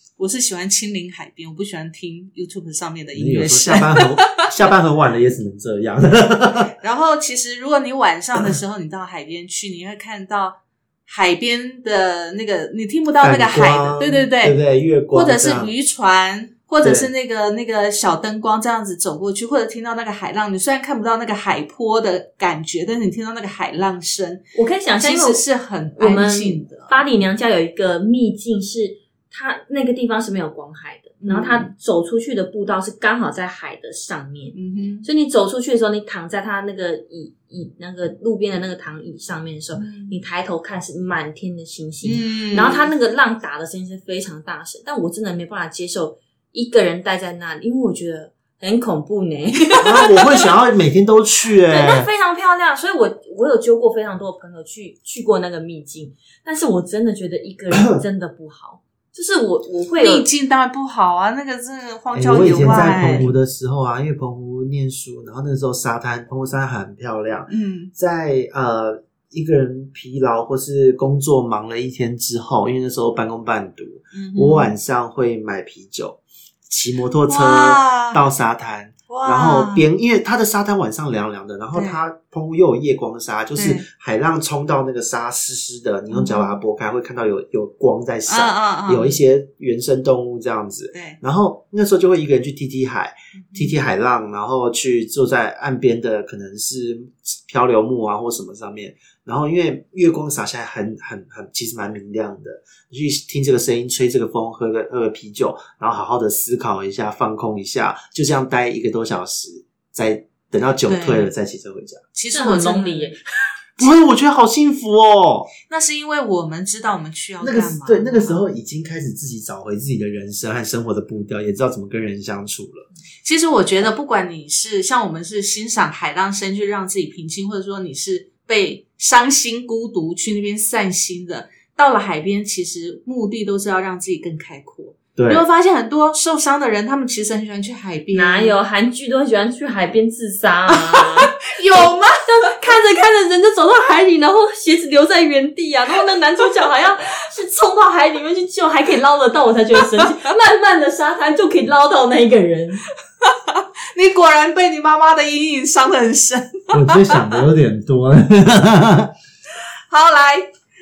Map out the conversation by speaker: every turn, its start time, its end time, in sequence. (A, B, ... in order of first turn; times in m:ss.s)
0:00.2-0:04.5 A
0:03.2-0:06.7 B
0:06.8-0:14.6 A
0:13.2-0:15.7 B
0:15.1-0:24.4 A
0:16.8-0:17.1 B
0:24.6-0:25.4 C
0:25.0-0:26.9 A
0:26.0-0:50.5 C
0:31.2-0:31.7 A
0:34.5-0:35.1 A
0:39.8-0:40.2 A
0:42.0-0:42.9 A
0:49.8-0:52.1 B
0:51.7-1:00.3 C
0:57.7-0:58.0 B
1:00.0-1:03.3 A
1:02.1-1:52.0 B
1:07.5-1:07.9 A
1:14.1-1:14.7 A
1:17.3-1:18.2 A
1:19.1-1:19.9 A
1:21.7-1:22.0 A
1:23.6-1:23.8 A
1:26.1-1:26.6 A
1:28.3-1:29.2 A
1:30.9-1:31.2 A
1:33.4-1:33.7 A
1:50.9-1:51.3 A
1:52.2-1:53.2 A
1:52.3-1:53.2 C
1:53.8-1:55.5 B
1:55.7-1:58.4 A
1:57.4-2:02.9 B
2:03.2-2:18.5 A
2:15.2-2:15.4 B
2:18.1-2:32.9 C
2:20.7-2:22.2 A
2:33.2-2:37.3 A
2:36.7-2:39.1 B
2:39.9-2:40.5 A